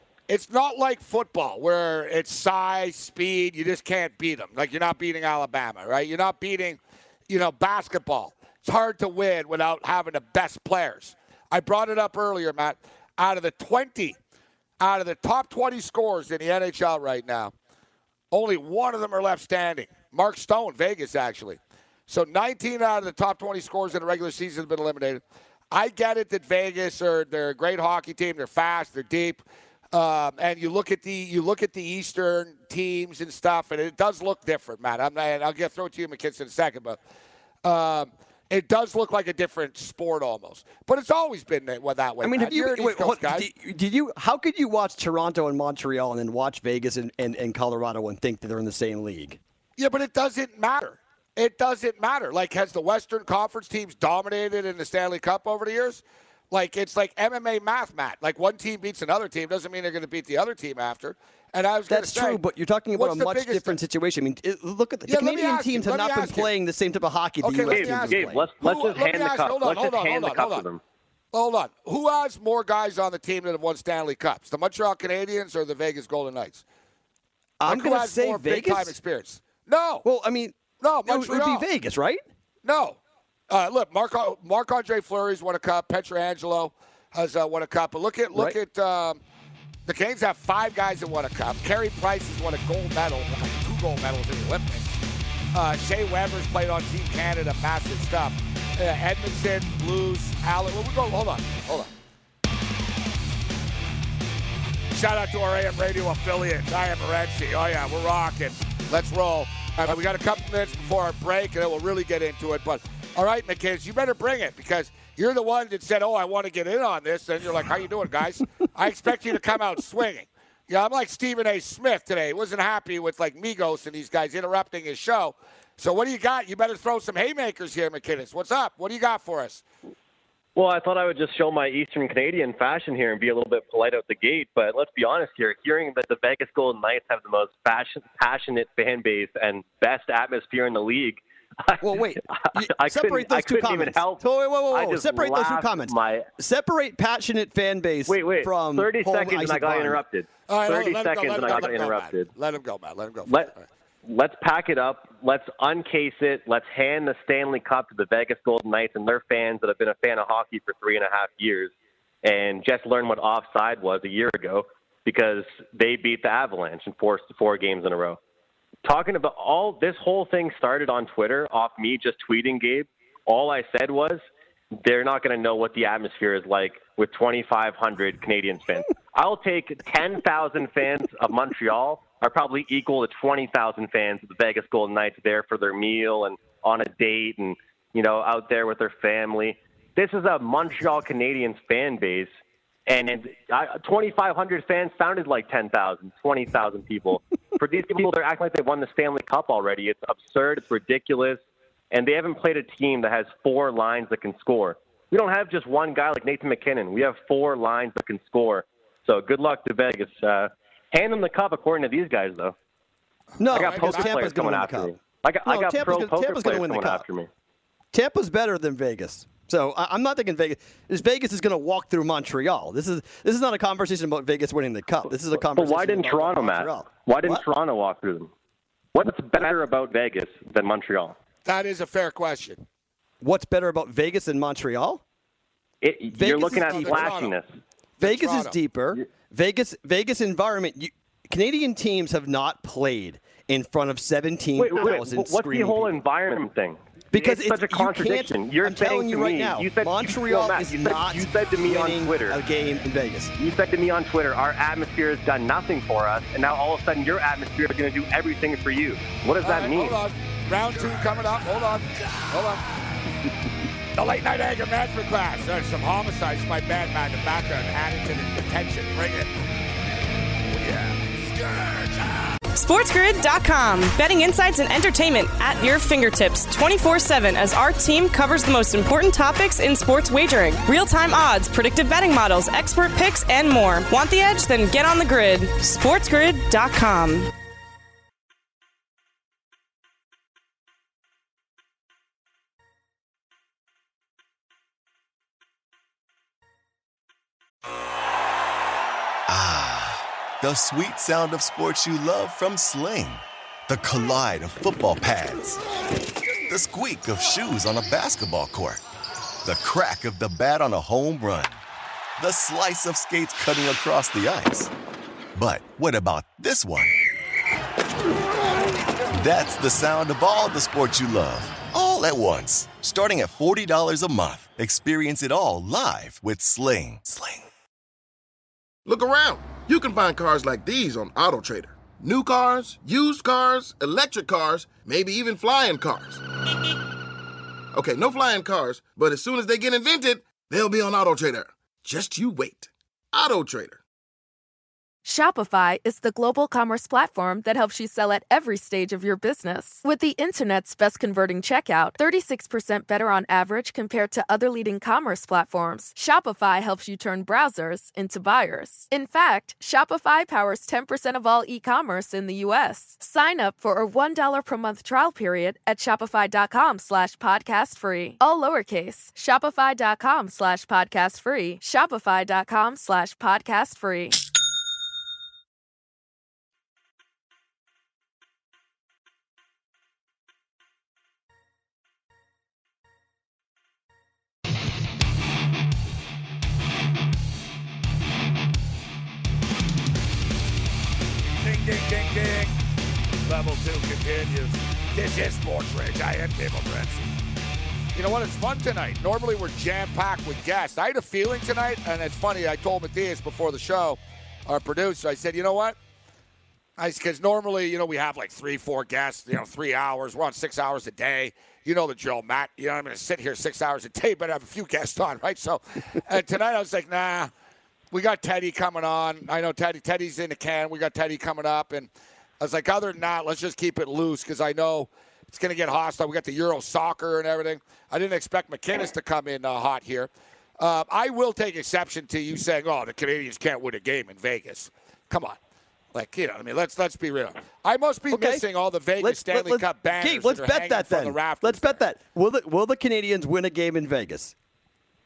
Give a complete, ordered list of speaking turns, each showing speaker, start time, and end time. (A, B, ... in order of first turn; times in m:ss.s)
0:00.3-0:14.2 A
0:14.8-0:17.5 A
0:18.3-0:29.4 A
0:29.9-0:37.0 A
0:37.6-0:43.5 A
0:42.2-0:49.4 B
0:49.8-1:02.4 A
1:01.9-1:08.4 B
1:03.0-1:03.8 A
1:05.1-1:06.5 A
1:07.4-1:10.6 A
1:07.7-1:10.8 C
1:11.3-1:16.6 A
1:17.6-1:19.0 B
1:17.7-1:20.0 A
1:20.0-1:22.2 B
1:20.8-1:21.6 A
1:22.6-1:23.0 A
1:23.5-1:29.2 A
1:29.9-1:34.9 A
1:35.5-1:41.9 A
1:44.9-2:09.6 A
2:10.6-2:26.3 C
2:21.8-2:30.0 B
2:28.1-2:32.3 C
2:30.5-2:33.6 A
2:33.3-2:33.5 C
2:34.1-2:41.7 C
2:42.2-2:48.2 C
2:48.8-2:54.2 C
2:54.8-3:12.3 C
3:12.9-3:21.4 C
3:21.9-3:32.6 C
3:33.4-3:35.0 B
3:33.4-3:34.2 A
3:33.5-3:37.3 C
3:35.5-3:37.0 B
3:37.9-3:47.4 B
3:45.3-3:48.3 C
3:48.9-3:51.2 C
3:51.4-3:52.6 A
3:53.2-3:55.0 B
3:55.8-3:57.5 C
3:56.2-3:57.1 B
3:56.3-3:57.3 A
3:58.0-3:58.5 A
3:58.0-4:05.9 B
4:04.6-4:12.4 C
4:07.1-4:13.3 B
4:13.4-4:20.0 C
4:19.4-4:22.8 A
4:23.9-4:29.3 A
4:30.5-4:32.1 A
4:32.6-4:47.3 D
4:59.3-5:05.6 E
5:06.5-5:08.8 E
5:09.4-5:11.6 E
5:12.2-5:14.7 E
5:15.4-5:17.0 E
5:19.2-5:27.4 E
5:28.9-5:36.2 F
5:37.7-5:43.8 F
5:45.0-6:14.2 G
6:31.3-6:32.5 A
6:33.3-6:37.0 A
6:38.0-6:45.8 A
6:46.8-6:57.3 A
6:57.9-7:01.9 A
7:02.4-7:15.4 A
7:15.9-7:21.8 A
7:18.1-7:18.4 B
7:19.0-7:24.3 B